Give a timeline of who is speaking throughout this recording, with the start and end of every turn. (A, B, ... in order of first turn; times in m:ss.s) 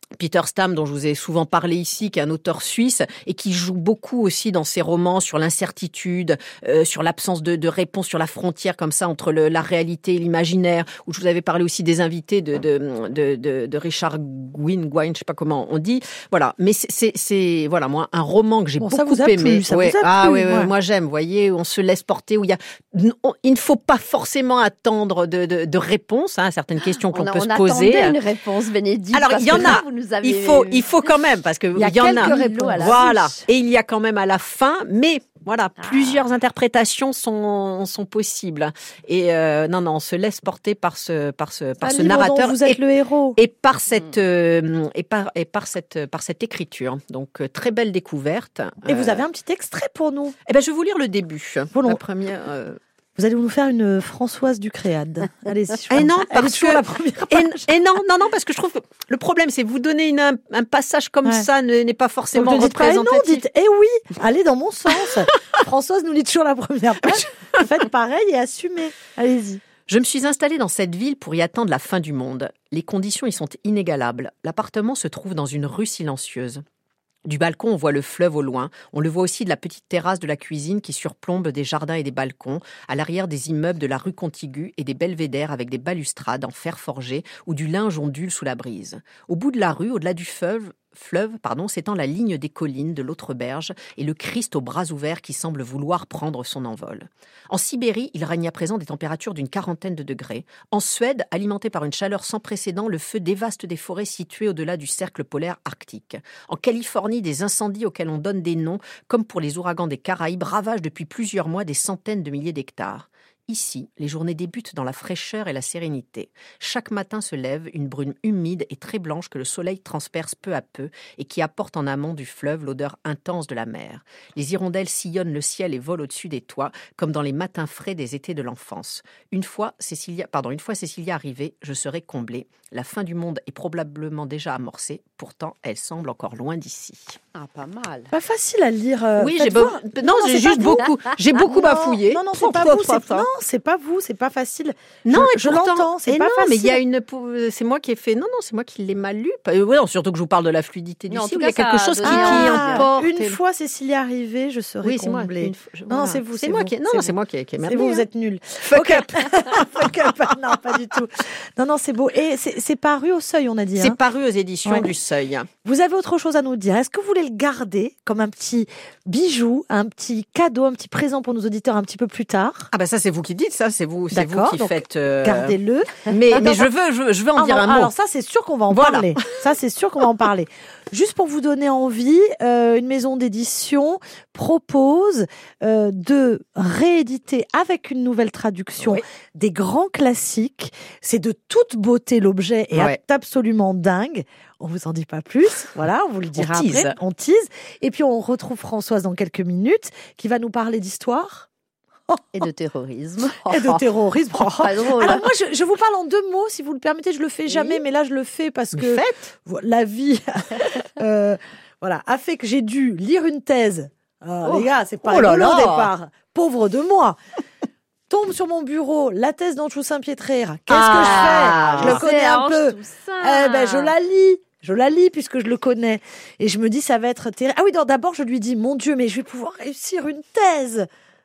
0:00.2-0:28.1 A
0:18.8-0:20.7 B
0:27.1-0:31.0 C
0:29.1-0:42.8 A
0:31.8-0:33.4 B
0:31.8-0:33.3 C
0:35.8-0:36.1 C
0:41.8-0:43.4 B
0:43.4-0:49.2 A
0:48.8-0:50.4 B
0:50.5-0:52.8 A
0:51.7-0:52.0 B
0:53.2-0:57.7 B
0:55.9-1:03.4 A
1:02.3-1:09.6 B
1:09.9-1:16.6 A
1:17.2-2:17.2 A
2:17.3-2:18.1 C
2:18.1-2:26.8 B
2:19.2-2:23.3 A
2:25.0-2:33.4 A
2:31.1-2:33.0 C
2:32.0-2:44.0 B
2:34.8-2:38.0 A
2:38.6-2:40.3 A
2:43.8-2:45.5 A
2:45.6-2:52.7 B
2:52.7-2:55.6 A
2:54.1-2:56.7 B
2:56.1-2:57.9 A
2:57.4-3:21.5 B
2:58.7-2:59.4 A
3:12.7-3:13.0 A
3:16.4-3:17.0 A
3:22.3-3:23.8 C
3:23.4-3:37.2 B
3:24.5-3:25.3 C
3:28.7-3:29.3 A
3:34.4-3:35.9 A
3:38.1-3:50.9 B
3:40.7-3:42.0 A
3:41.0-3:43.9 C